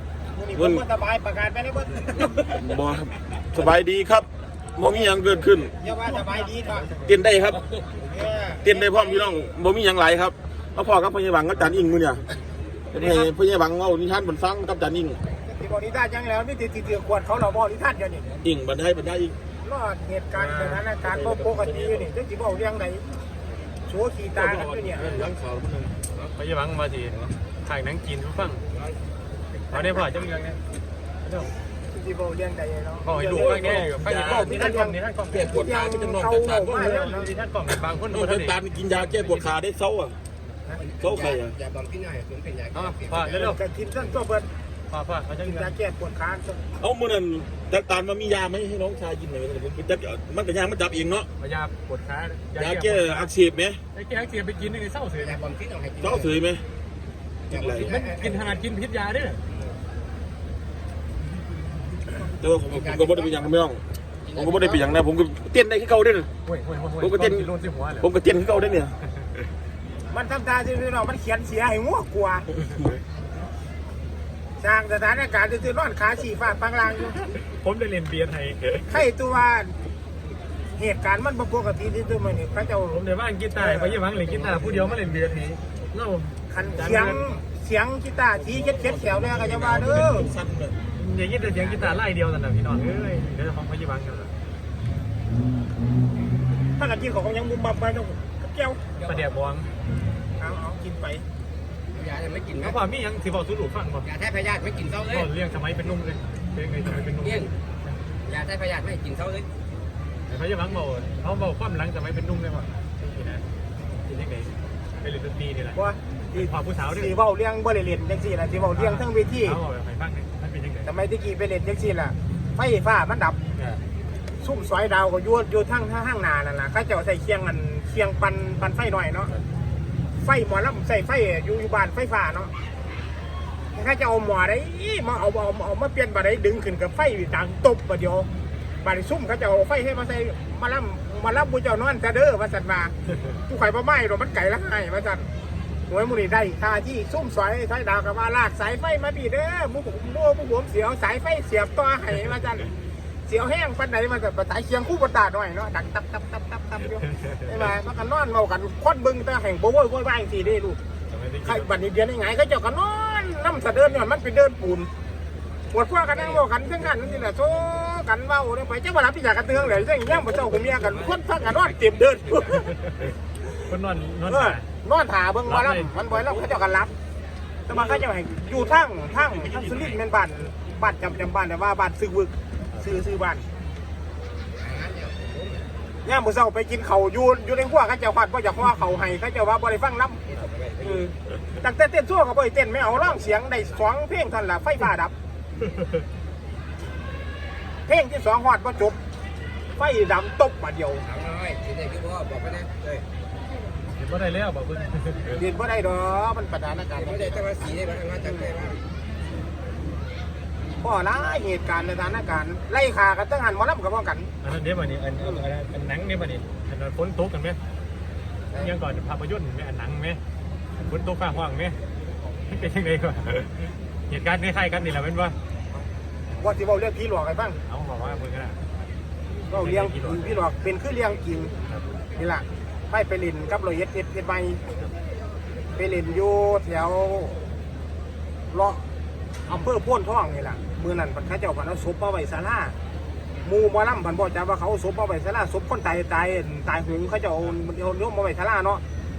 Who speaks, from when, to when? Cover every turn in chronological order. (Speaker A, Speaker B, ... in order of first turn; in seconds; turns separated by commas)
Speaker A: 0.3-2.4, Speaker B: 0.6-0.8, Speaker B: 2.4-5.7, Speaker A: 5.8-7.0, Speaker B: 7.0-7.6, Speaker A: 8.1-9.5, Speaker B: 8.6-12.2, Speaker B: 12.9-15.2, Speaker C: 12.9-13.3, Speaker A: 15.3-18.5, Speaker B: 18.4-19.4, Speaker A: 19.6-23.0, Speaker C: 20.4-20.8, Speaker B: 21.0-22.0, Speaker A: 23.9-25.3, Speaker B: 24.4-25.9, Speaker C: 26.3-28.6, Speaker D: 28.7-29.0, Speaker C: 29.7-30.6, Speaker C: 31.2-31.5, Speaker A: 31.9-35.0, Speaker C: 33.0-35.5, Speaker B: 33.5-34.0, Speaker B: 35.3-36.9, Speaker A: 35.5-37.3, Speaker C: 36.7-39.5, Speaker B: 38.1-40.1, Speaker D: 40.8-43.3, Speaker B: 41.0-41.5, Speaker C: 42.7-43.6, Speaker A: 43.2-44.5, Speaker C: 44.9-45.7, Speaker A: 45.4-46.6, Speaker B: 46.8-51.3, Speaker C: 51.4-53.3, Speaker B: 52.5-53.8, Speaker C: 53.9-55.4, Speaker D: 55.2-56.4, Speaker B: 56.0-56.6, Speaker D: 57.5-58.6, Speaker B: 57.5-57.9, Speaker C: 57.8-59.4, Speaker D: 59.5-59.8, Speaker B: 62.3-63.8, Speaker D: 62.7-63.5, Speaker D: 64.3-65.0, Speaker B: 64.3-66.3, Speaker C: 66.4-68.1, Speaker B: 67.0-67.5, Speaker B: 68.0-68.9, Speaker A: 70.1-72.5, Speaker A: 74.6-77.2, Speaker C: 77.5-78.6, Speaker A: 78.9-79.8, Speaker A: 80.8-83.0, Speaker C: 82.9-87.2, Speaker A: 83.6-84.0, Speaker D: 84.2-85.3, Speaker A: 86.5-90.3, Speaker B: 88.6-90.8, Speaker C: 90.9-94.3, Speaker D: 91.6-92.0, Speaker A: 96.8-98.8, Speaker D: 99.0-99.3, Speaker C: 99.0-99.7, Speaker A: 100.4-101.2, Speaker D: 101.9-102.8, Speaker C: 102.6-104.1, Speaker D: 104.0-105.3, Speaker C: 105.1-107.5, Speaker D: 107.2-107.5, Speaker D: 108.2-109.5, Speaker C: 110.3-113.4, Speaker C: 114.0-115.8, Speaker A: 115.7-119.6, Speaker C: 116.3-117.1, Speaker C: 118.7-120.9, Speaker A: 120.8-123.4, Speaker A: 124.4-129.3, Speaker A: 130.2-132.5, Speaker A: 133.7-138.3, Speaker A: 138.8-142.9, Speaker A: 143.4-145.3, Speaker A: 145.9-152.7, Speaker A: 153.3-160.8, Speaker C: 161.1-161.7, Speaker A: 161.4-164.9, Speaker A: 165.7-172.7, Speaker D: 166.1-166.4, Speaker D: 170.0-172.7, Speaker C: 172.8-173.1, Speaker C: 173.7-174.7, Speaker A: 174.3-176.9, Speaker C: 175.4-176.0, Speaker A: 177.7-183.4, Speaker D: 184.6-185.7, Speaker A: 186.0-190.2, Speaker D: 190.3-191.1, Speaker A: 190.8-195.1, Speaker A: 197.9-199.0, Speaker A: 199.8-201.0, Speaker D: 201.0-203.1, Speaker C: 203.9-205.3, Speaker A: 205.3-208.5, Speaker D: 206.9-208.8, Speaker A: 210.8-214.3, Speaker C: 214.4-217.6, Speaker C: 218.5-220.2, Speaker C: 220.8-221.8, Speaker C: 222.5-225.3, Speaker A: 226.4-227.6, Speaker C: 227.6-228.6, Speaker A: 229.5-231.5, Speaker C: 229.5-230.3, Speaker A: 232.2-234.6, Speaker A: 235.8-237.4, Speaker A: 238.5-238.8, Speaker A: 239.5-242.8, Speaker A: 243.4-248.8